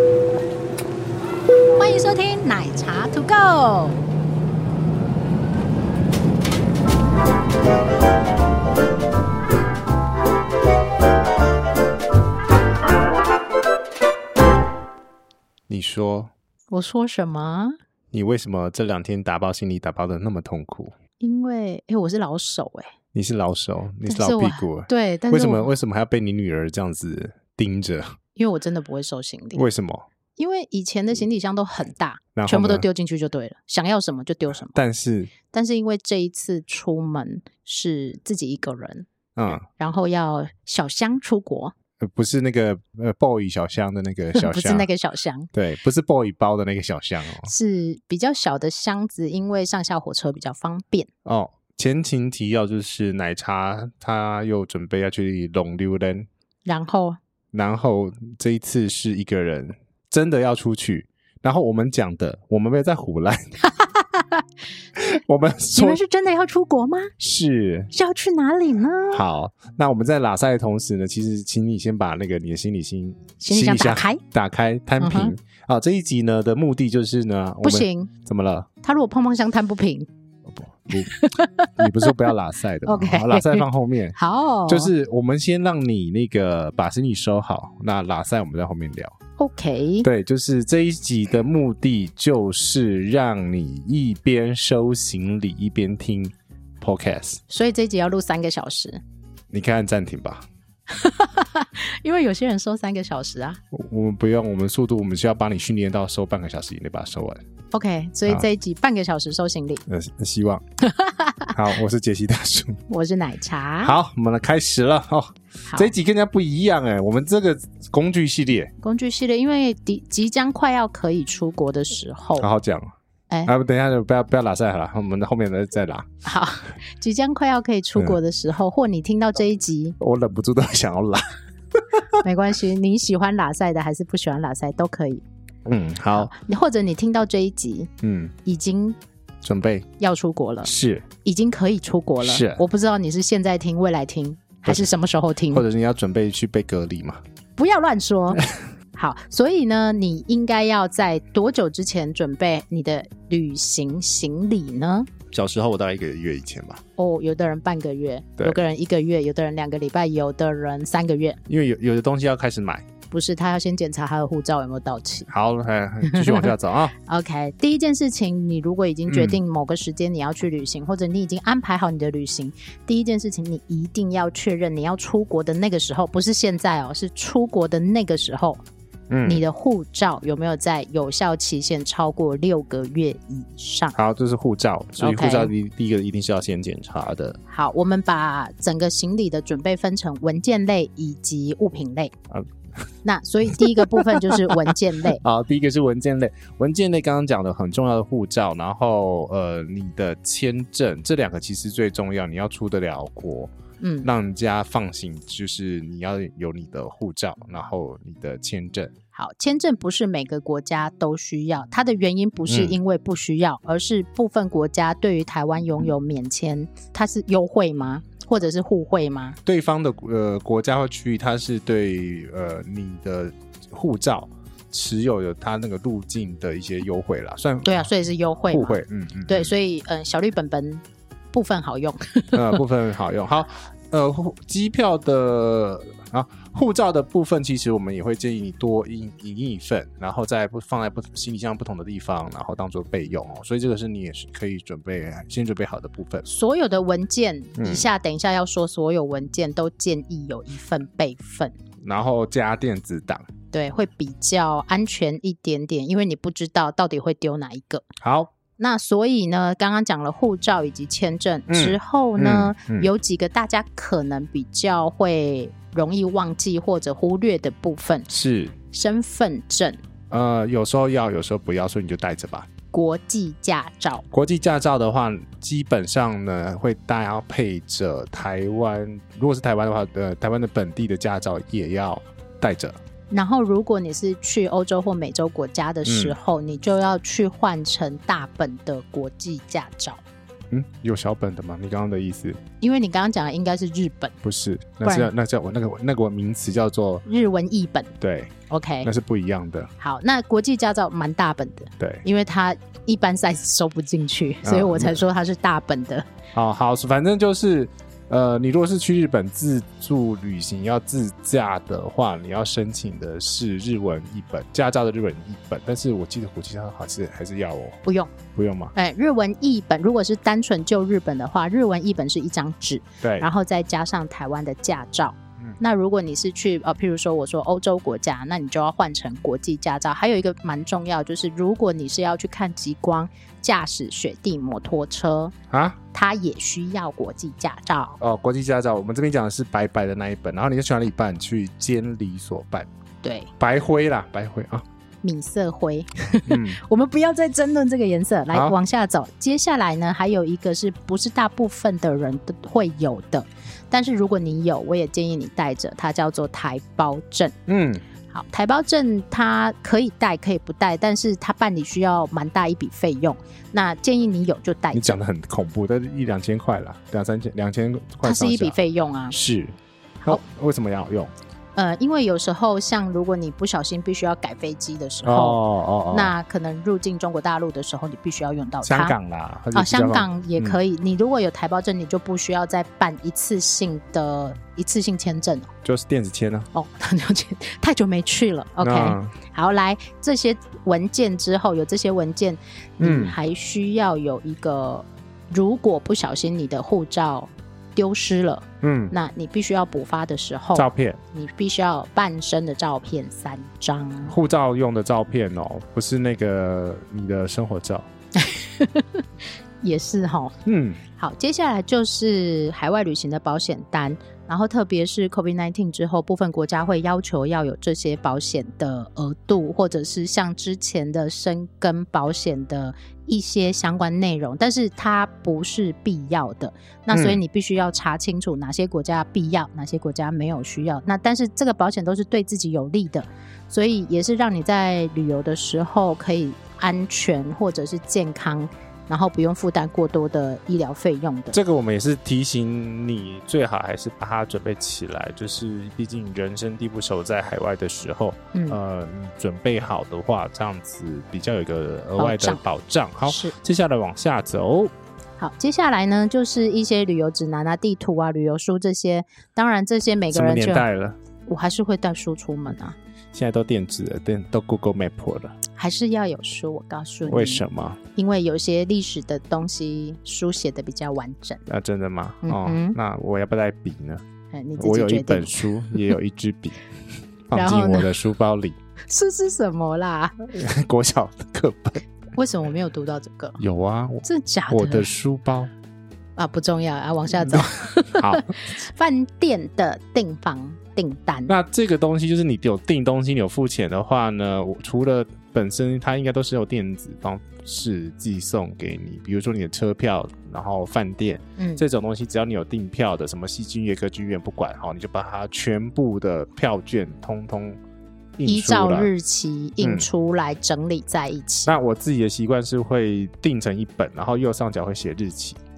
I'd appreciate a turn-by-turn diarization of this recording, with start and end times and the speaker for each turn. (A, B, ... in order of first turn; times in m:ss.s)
0:01.8-0:04.0 A
0:15.7-0:16.3 B
0:16.7-0:17.7 A
0:18.1-0:20.9 B
0:21.2-0:22.9 A
0:23.1-0:28.2 B
0:24.0-0:25.7 A
0:28.4-0:29.6 A
0:29.5-0:30.0 B
0:30.4-0:34.8 A
0:32.4-0:32.9 B
0:34.7-0:35.3 B
0:35.5-0:41.7 A
0:39.4-0:39.6 B
0:42.0-0:44.9 B
0:44.3-0:45.5 A
0:45.5-0:47.5 B
0:47.4-0:51.1 A
0:51.2-0:56.3 B
0:56.6-0:57.2 A
0:57.5-1:03.6 B
1:03.6-1:04.4 A
1:05.0-1:06.0 B
1:05.7-1:07.1 A
1:07.2-1:07.9 B
1:07.9-1:09.2 A
1:09.1-1:18.7 B
1:13.4-1:14.2 A
1:15.0-1:15.3 A
1:17.6-1:18.1 A
1:18.8-1:20.1 A
1:20.5-1:24.2 B
1:20.9-1:22.2 A
1:22.8-1:24.9 A
1:24.7-1:29.1 B
1:29.4-1:30.1 A
1:30.0-1:37.4 B
1:37.5-1:39.0 A
1:39.5-1:40.4 B
1:40.9-1:43.6 A
1:43.7-1:47.4 B
1:47.7-1:49.8 A
1:49.9-1:50.6 B
1:50.8-1:51.5 A
1:51.5-1:52.8 B
1:52.9-1:54.0 A
1:53.8-1:58.7 B
1:58.8-2:02.5 A
2:02.4-2:02.9 B
2:03.4-2:06.1 B
2:06.2-2:10.0 A
2:10.0-2:12.2 B
2:12.2-2:15.2 A
2:15.6-2:16.3 B
2:16.1-2:17.9 A
2:18.0-2:18.3 B
2:18.4-2:19.0 A
2:19.4-2:19.9 B
2:20.0-2:20.7 A
2:20.6-2:21.1 B
2:21.2-2:25.6 A
2:22.2-2:22.6 B
2:24.6-2:24.9 B
2:25.5-2:27.2 B
2:27.6-2:35.1 A
2:35.3-2:36.8 B
2:37.0-2:41.4 A
2:41.5-2:42.8 B
2:43.1-2:45.3 A
2:45.3-2:46.9 B
2:46.0-2:46.5 A
2:47.0-2:58.6 A
2:49.1-2:49.4 B
2:59.1-2:59.4 B
2:59.2-3:03.9 A
3:03.9-3:07.4 B
3:05.0-3:05.5 A
3:07.5-3:12.1 A
3:13.0-3:15.2 A
3:13.5-3:23.5 B
3:23.8-3:24.1 A
3:24.0-3:28.9 B
3:29.1-3:39.4 A
3:32.5-3:32.8 B
3:39.4-3:47.9 B
3:47.6-3:52.6 A
3:48.5-3:49.5 B
3:52.3-4:06.2 B
4:06.2-4:11.5 A
4:07.6-4:07.9 B
4:11.8-4:13.2 B
4:13.5-4:17.8 A
4:18.0-4:18.3 B
4:18.6-4:28.1 A
4:21.5-4:22.9 B
4:28.1-4:28.6 B
4:28.7-4:29.8 A
4:30.1-4:32.5 B
4:32.7-4:34.0 A
4:34.1-4:42.8 B
4:43.1-4:50.0 A
4:45.8-4:46.2 B
4:50.5-4:52.4 B
4:52.6-4:54.2 A
4:54.2-4:57.0 B
4:54.8-4:55.1 A
4:57.0-4:57.9 A
4:58.0-4:59.7 B
4:58.5-4:58.9 A
4:59.8-5:06.0 A
5:01.8-5:02.0 B
5:04.4-5:05.0 B
5:06.3-5:17.8 B
5:17.8-5:18.1 A
5:18.3-5:18.7 B
5:18.7-5:35.3 A
5:23.0-5:23.3 B
5:35.5-5:35.8 B
5:35.9-5:38.0 A
5:38.0-5:42.7 B
5:43.0-5:43.3 A
5:43.4-5:44.6 B
5:45.0-5:57.4 A
5:46.3-5:46.6 B
5:57.5-5:57.8 B
5:58.1-6:05.0 A
6:04.7-6:08.6 B
6:08.0-6:09.2 A
6:09.1-6:11.1 B
6:11.6-6:15.4 A
6:15.0-6:16.1 B
6:15.9-6:19.0 A
6:18.6-6:20.6 B
6:19.5-6:25.5 A
6:25.6-6:26.5 B
6:26.5-6:44.2 A
6:28.6-6:29.1 B
6:32.8-6:33.2 B
6:38.6-6:38.9 B
6:40.5-6:41.0 B
6:44.1-6:47.9 B
6:48.2-6:49.0 A
6:49.6-6:50.4 A
6:50.4-6:50.8 B
6:51.0-7:21.4 A
7:06.9-7:07.2 B
7:21.3-7:34.7 B
7:32.0-7:32.4 A
7:33.1-7:33.3 A
7:35.2-7:40.7 A
7:40.1-7:41.0 B
7:41.2-7:42.8 A
7:43.1-7:45.4 B
7:45.5-7:47.4 A
7:47.0-7:47.8 B
7:47.9-7:51.4 A
7:51.4-7:54.0 B
7:52.2-7:52.8 A
7:54.3-7:55.8 A
7:54.6-7:56.6 B
7:57.3-7:58.6 B
7:57.3-7:57.9 A
7:58.9-8:00.2 A
8:00.3-8:01.8 B
8:02.1-8:03.4 A
8:03.4-8:05.5 B
8:04.0-8:04.9 A
8:06.2-8:11.3 A
8:07.2-8:08.3 B
8:11.3-8:27.6 B
8:21.4-8:21.6 A
8:28.2-8:28.9 B
8:28.2-8:31.5 A
8:29.6-8:29.8 B
8:31.4-8:35.4 B